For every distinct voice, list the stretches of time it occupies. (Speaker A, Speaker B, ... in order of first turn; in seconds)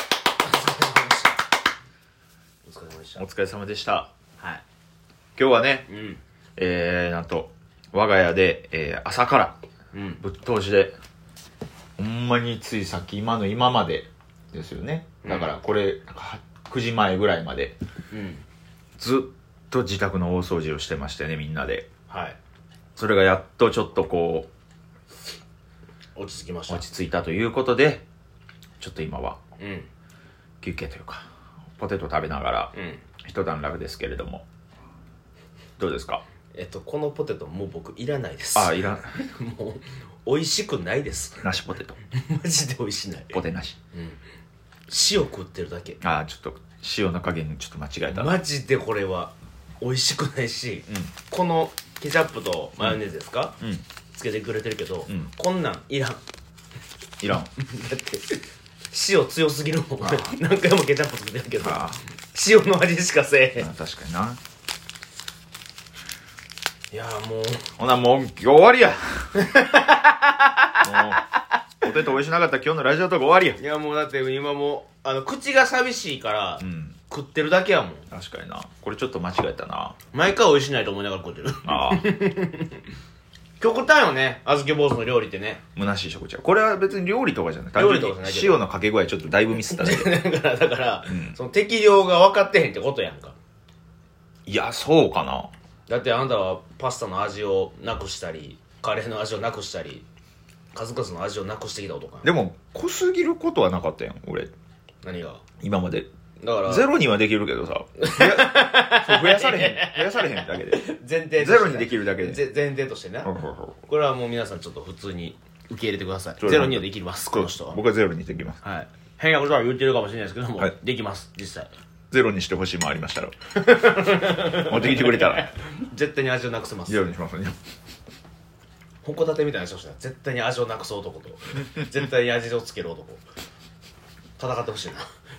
Speaker A: 0.4-1.5, 2.7-3.2, 5.9-6.2, 9.9-10.2, 15.2-15.6, 18.1-18.4, 22.1-22.4, 26.2-26.9, 29.6-29.9, 32.7-33.0, 36.5-41.5, 42.1-43.4, 43.9-44.2, 44.9-46.0, 48.1-53.6, 54.1-56.2, 57.5-63.7, 66.9-67.7, 69.3-71.4, 73.6-78.1, 80.1-82.8, 83.6-85.6, 87.8-88.6, 89.6-93.4, 95.9-100.0, 100.7-102.3, 105.0-105.4, 106.4-106.9, 108.0-113.3, 113.9-117.8, 118.6-121.7, 123.5-127.1, 129.0-133.2, 134.4-135.1
Speaker B: 3.2-4.1, 5.4-5.9, 6.6-9.6, 10.2-10.9, 12.0-17.8, 19.0-21.9, 23.0-24.5, 26.7-28.0, 28.8-29.4, 30.6-32.7, 33.2-34.5, 35.8-36.2, 38.5-39.2, 41.4-42.0, 43.3-43.8, 46.0-48.4, 57.2-57.5, 60.0-60.3, 61.6-62.0, 63.6-64.4, 67.8-69.3, 70.8-71.2, 71.8-73.6, 76.6-77.0, 78.1-80.0, 81.7-82.1, 85.8-90.3, 91.1-91.4, 94.5-95.5, 102.2-104.5, 105.6-106.1, 106.7-110.8, 111.4-112.4, 113.2-113.8, 116.4-118.6, 122.1-123.3, 124.5-125.5, 126.9-127.6